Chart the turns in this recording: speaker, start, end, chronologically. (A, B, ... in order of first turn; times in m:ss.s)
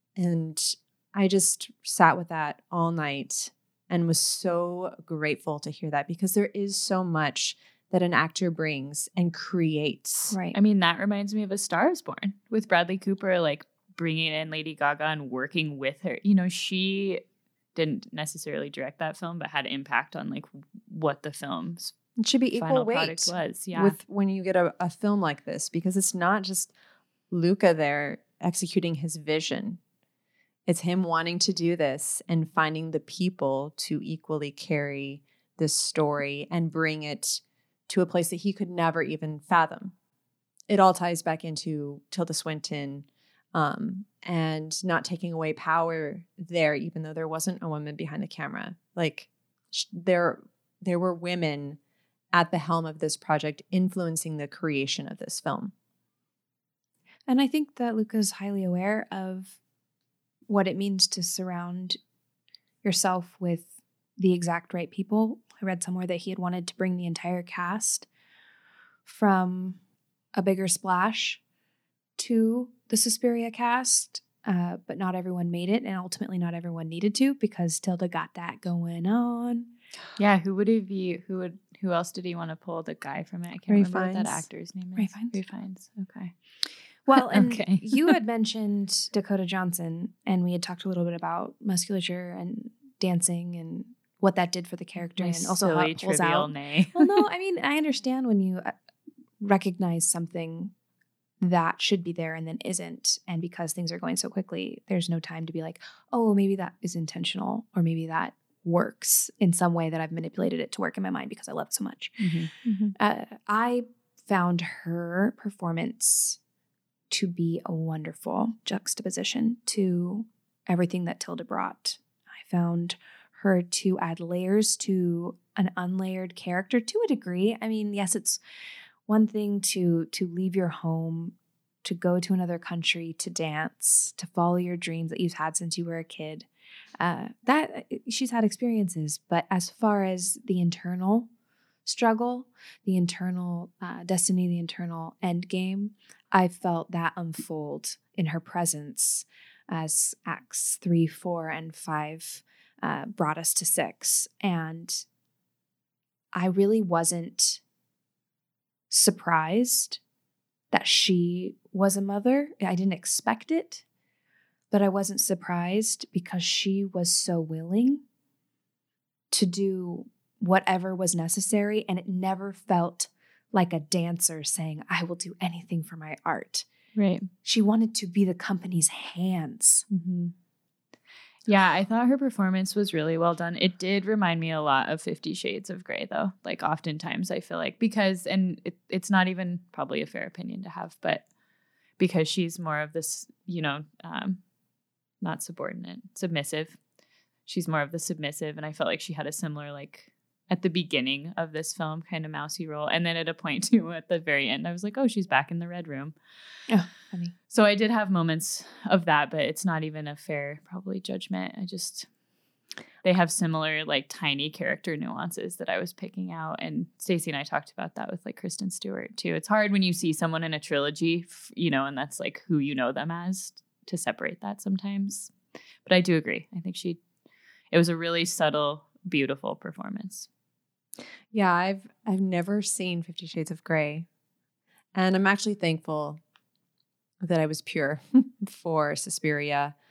0:00.2-0:10.4 A
0:10.3-0:10.6 B
0:10.5-0:17.2 C
0:17.7-0:21.9 C
0:22.2-0:26.7 A
0:22.5-0:24.0 C
0:27.3-0:29.8 A
0:30.6-0:39.9 A
0:40.7-0:51.8 A
0:52.3-0:55.7 A
0:57.3-0:59.6 B
1:00.5-1:02.0 B
1:02.8-1:08.1 B
1:09.0-1:09.8 B
1:10.3-1:11.4 B
1:12.2-1:19.7 B
1:20.2-1:26.3 C
1:23.7-1:24.5 A
1:25.0-1:25.4 B
1:27.0-1:38.7 B
1:27.1-1:28.2 C
1:35.2-1:37.2 C
1:39.4-1:40.7 B
1:41.4-1:52.2 B
1:52.6-1:52.9 C
1:53.0-1:56.4 B
1:57.1-2:08.4 B
2:09.1-2:16.5 B
2:17.0-2:21.3 B
2:21.8-2:35.0 B
2:36.3-2:37.6 B
2:38.9-2:40.0 B
2:40.7-2:43.8 B
2:44.7-2:48.0 B
2:49.3-2:56.6 B
2:56.9-2:57.3 C
2:57.4-2:59.8 B
2:59.9-3:00.3 C
3:01.4-3:11.2 C
3:12.0-3:14.4 C
3:15.2-3:16.8 C
3:17.5-3:26.2 C
3:26.7-3:27.3 B
3:27.5-3:32.1 C
3:33.0-3:45.3 C
3:45.8-3:47.0 C
3:47.7-3:50.3 C
3:51.3-3:54.1 A
3:54.9-3:56.2 A
3:57.2-3:59.7 A